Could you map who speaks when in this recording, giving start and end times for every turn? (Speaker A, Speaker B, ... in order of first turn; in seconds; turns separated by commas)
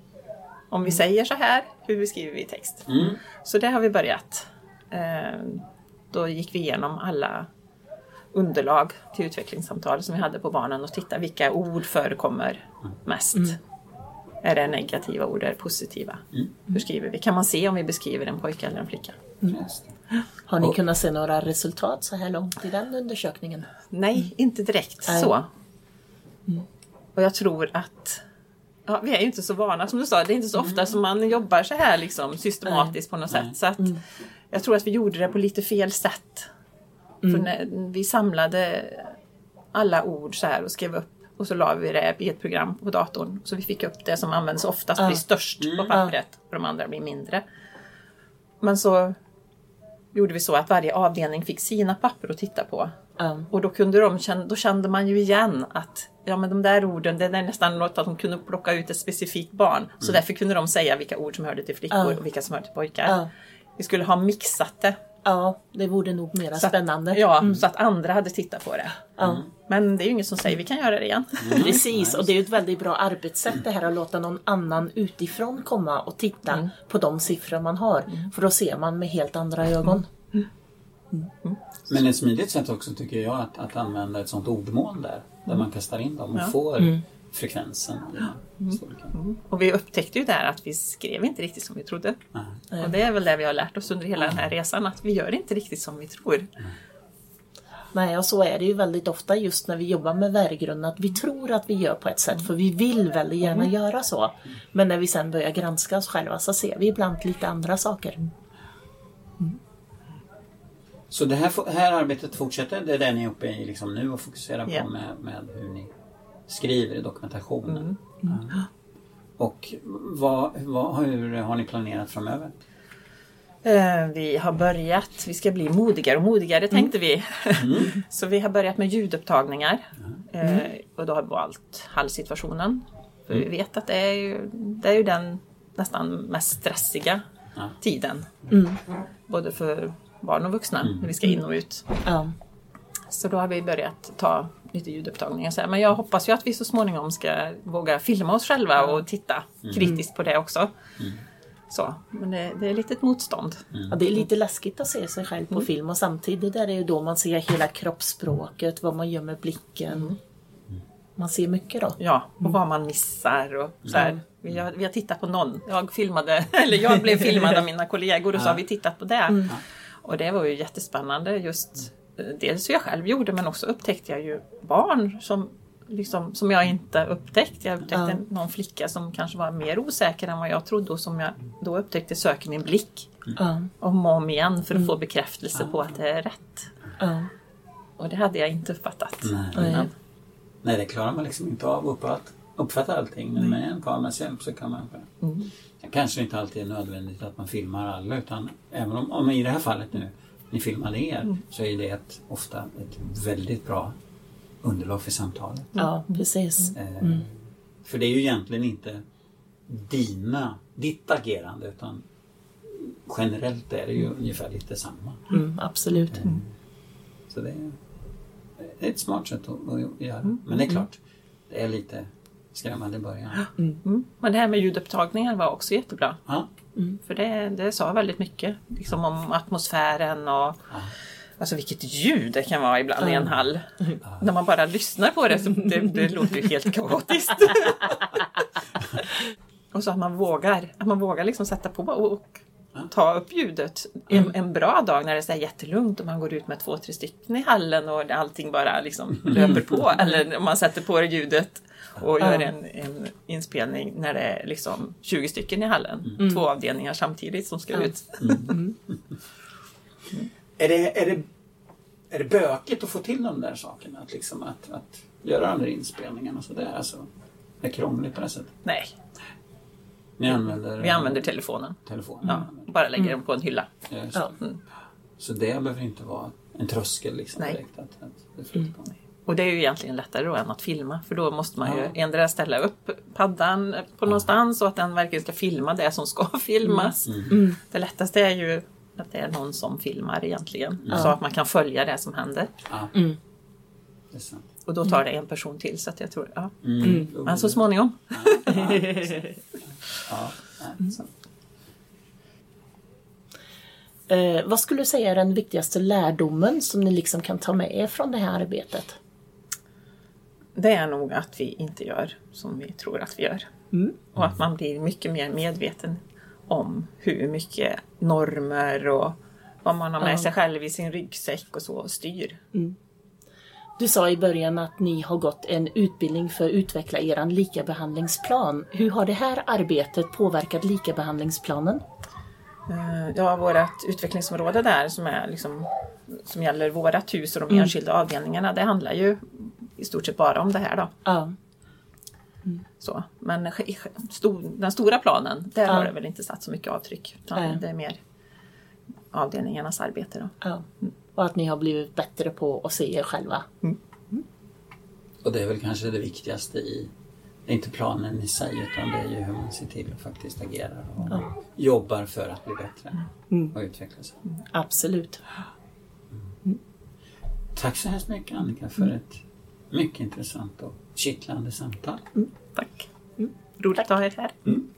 Speaker A: 0.7-7.5, Speaker B: 2.9-3.2, Speaker A: 8.3-13.6, Speaker A: 14.4-19.2, Speaker B: 19.5-19.9, Speaker C: 20.5-23.7, Speaker A: 23.9-25.5, Speaker C: 25.1-25.3, Speaker A: 27.1-28.2, Speaker A: 28.9-36.5, Speaker C: 32.6-32.9, Speaker A: 37.3-39.2, Speaker A: 39.7-47.4, Speaker C: 45.0-45.2, Speaker B: 45.6-46.0, Speaker A: 48.6-49.2, Speaker A: 50.1-52.9, Speaker C: 53.2-53.5, Speaker A: 53.5-63.2, Speaker C: 61.9-62.2, Speaker C: 63.0-63.3, Speaker A: 63.8-65.0, Speaker C: 65.2-67.5, Speaker A: 66.6-69.1, Speaker C: 69.2-69.4, Speaker A: 69.7-71.8, Speaker B: 71.4-72.3, Speaker C: 71.5-80.1, Speaker B: 81.9-89.1, Speaker A: 88.6-92.2, Speaker A: 92.8-96.5, Speaker B: 94.2-94.5, Speaker C: 97.9-108.3, Speaker B: 111.1-115.9, Speaker B: 116.5-118.6, Speaker A: 117.7-118.0, Speaker B: 119.4-122.5, Speaker A: 123.6-137.2, Speaker B: 127.6-128.0, Speaker A: 137.8-138.3, Speaker C: 138.5-138.8, Speaker A: 139.3-141.8, Speaker B: 140.8-141.1, Speaker C: 142.1-142.3, Speaker A: 143.1-150.7, Speaker B: 149.7-149.9, Speaker A: 151.7-154.2, Speaker C: 153.9-160.1, Speaker A: 159.9-160.2, Speaker C: 161.2-162.0, Speaker A: 162.0-183.1, Speaker B: 168.3-168.6, Speaker C: 169.3-169.5, Speaker C: 177.9-178.2, Speaker C: 183.4-183.7, Speaker A: 183.8-186.7, Speaker C: 187.0-187.3, Speaker A: 188.0-189.9, Speaker B: 189.2-189.9, Speaker C: 189.6-189.9, Speaker B: 190.6-195.1, Speaker A: 195.2-195.5, Speaker B: 195.8-203.9, Speaker B: 204.6-205.8, Speaker C: 205.8-207.3, Speaker B: 206.7-207.3, Speaker B: 207.8-209.0, Speaker B: 209.7-212.0, Speaker B: 212.7-215.4, Speaker C: 215.3-216.3, Speaker B: 216.1-216.4, Speaker B: 217.3-217.8, Speaker B: 218.6-223.5, Speaker A: 223.8-226.2, Speaker A: 227.0-230.6, Speaker A: 231.4-238.2, Speaker A: 239.7-258.6, Speaker C: 252.2-252.5, Speaker B: 258.2-258.8, Speaker B: 260.6-261.3, Speaker B: 262.1-267.1, Speaker B: 267.6-268.5, Speaker A: 268.6-268.9, Speaker B: 270.2-271.3, Speaker A: 270.6-273.7, Speaker B: 271.9-272.6, Speaker B: 273.9-274.3, Speaker A: 274.4-274.6, Speaker B: 275.2-278.9, Speaker A: 279.3-292.5, Speaker B: 281.6-281.9, Speaker C: 286.7-287.6, Speaker B: 287.1-287.4, Speaker B: 290.9-291.1, Speaker B: 292.7-292.9, Speaker B: 294.1-294.4, Speaker A: 294.7-296.6, Speaker B: 296.6-299.3, Speaker A: 297.1-299.0, Speaker B: 299.9-301.1, Speaker C: 304.1-308.9, Speaker A: 310.6-313.5, Speaker C: 313.7-314.0, Speaker A: 314.1-322.4, Speaker C: 320.0-320.3, Speaker C: 323.8-331.8, Speaker A: 332.7-340.9, Speaker C: 341.1-341.4, Speaker A: 342.8-348.0, Speaker C: 347.4-347.6, Speaker A: 349.1-350.9, Speaker C: 351.1-353.5, Speaker B: 355.2-356.9, Speaker B: 357.5-364.2, Speaker C: 363.3-363.6, Speaker C: 364.5-365.2, Speaker B: 367.6-369.2, Speaker B: 369.7-372.1, Speaker A: 372.6-372.9, Speaker A: 373.6-374.4